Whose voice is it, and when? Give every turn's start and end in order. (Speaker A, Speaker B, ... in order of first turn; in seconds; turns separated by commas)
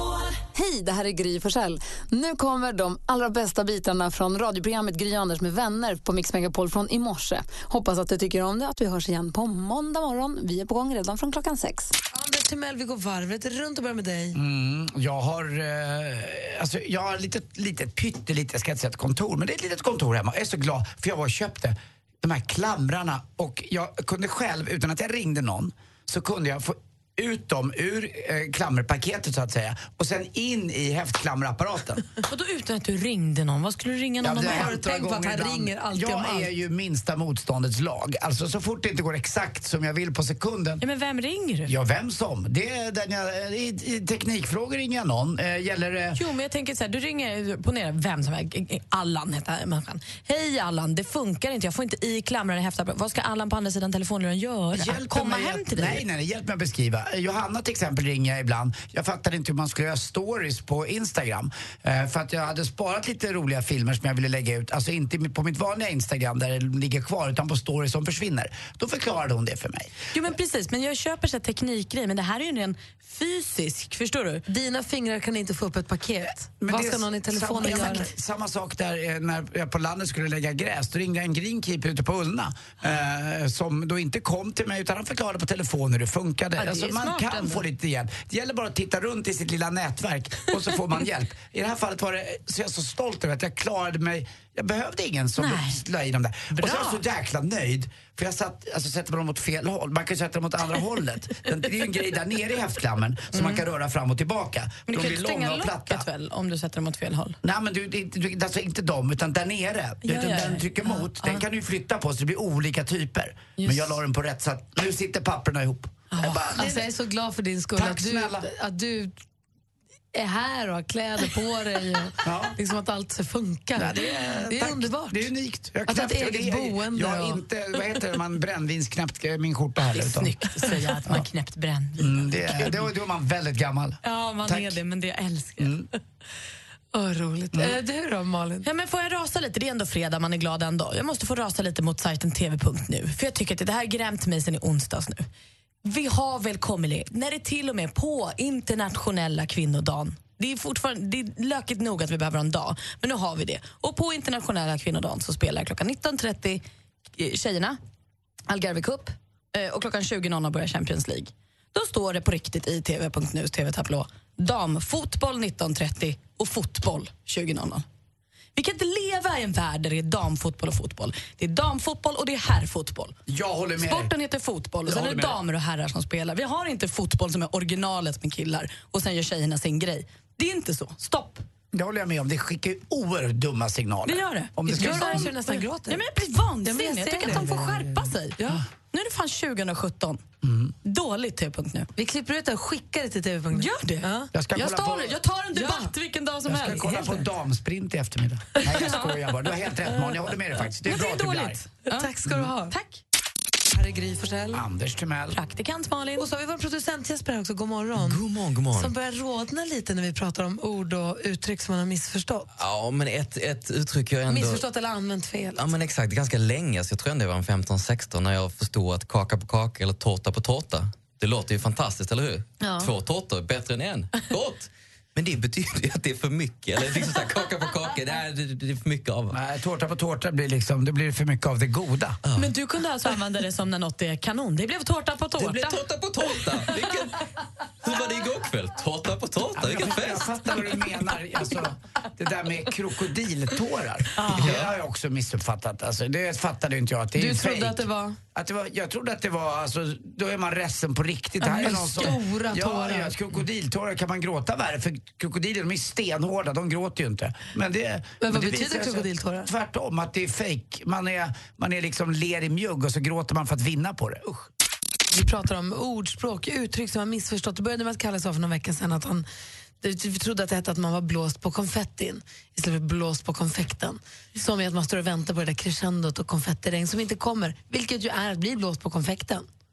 Speaker A: 0.5-11.9, Speaker B: 12.1-14.4, Speaker C: 14.3-32.0, Speaker D: 32.3-34.7, Speaker C: 34.2-40.8, Speaker B: 34.4-36.5, Speaker D: 40.8-41.7, Speaker C: 41.7-46.2, Speaker D: 46.1-56.0, Speaker C: 54.7-69.9, Speaker D: 70.1-74.4, Speaker B: 74.5-78.1, Speaker C: 76.6-106.1, Speaker D: 86.6-87.6, Speaker D: 95.4-95.8, Speaker D: 96.5-97.0, Speaker D: 103.3-103.6, Speaker D: 104.9-107.4, Speaker C: 107.4-116.9, Speaker D: 110.0-111.4, Speaker B: 113.6-113.9, Speaker B: 116.1-119.1, Speaker C: 117.8-118.5, Speaker B: 120.1-125.2, Speaker C: 122.2-122.6, Speaker C: 123.8-130.3, Speaker B: 125.9-127.4, Speaker D: 129.9-132.8, Speaker C: 132.0-134.8, Speaker D: 134.0-135.7, Speaker C: 135.6-135.9, Speaker B: 136.9-138.7, Speaker D: 138.6-145.2, Speaker D: 145.8-156.6, Speaker D: 157.1-157.8, Speaker D: 158.5-167.8, Speaker D: 168.6-173.2, Speaker C: 173.3-174.1, Speaker D: 173.8-181.4, Speaker C: 174.8-175.4, Speaker C: 181.7-185.3, Speaker D: 184.1-188.4, Speaker B: 184.7-186.0, Speaker B: 186.6-188.6, Speaker D: 188.9-190.2, Speaker C: 190.4-190.7, Speaker D: 190.8-191.9, Speaker B: 191.9-194.3, Speaker D: 193.5-197.2, Speaker C: 194.3-195.2, Speaker B: 195.5-195.9, Speaker C: 196.4-201.6, Speaker D: 198.6-199.1, Speaker D: 200.8-202.1, Speaker B: 201.9-202.7, Speaker D: 202.7-203.0, Speaker B: 203.7-204.6, Speaker C: 204.5-205.4, Speaker D: 205.3-206.3, Speaker B: 206.2-208.2, Speaker E: 208.0-208.9, Speaker B: 208.7-212.5, Speaker E: 212.6-214.6, Speaker B: 214.3-215.6, Speaker E: 215.6-229.3, Speaker D: 222.6-222.9, Speaker C: 229.3-232.2, Speaker E: 232.2-232.5, Speaker D: 232.3-235.8, Speaker E: 235.4-237.2, Speaker E: 237.8-240.3, Speaker C: 239.6-264.5, Speaker D: 244.2-244.7, Speaker B: 247.2-248.2, Speaker B: 251.4-253.1, Speaker B: 258.2-259.5, Speaker B: 265.1-269.2, Speaker B: 269.8-279.4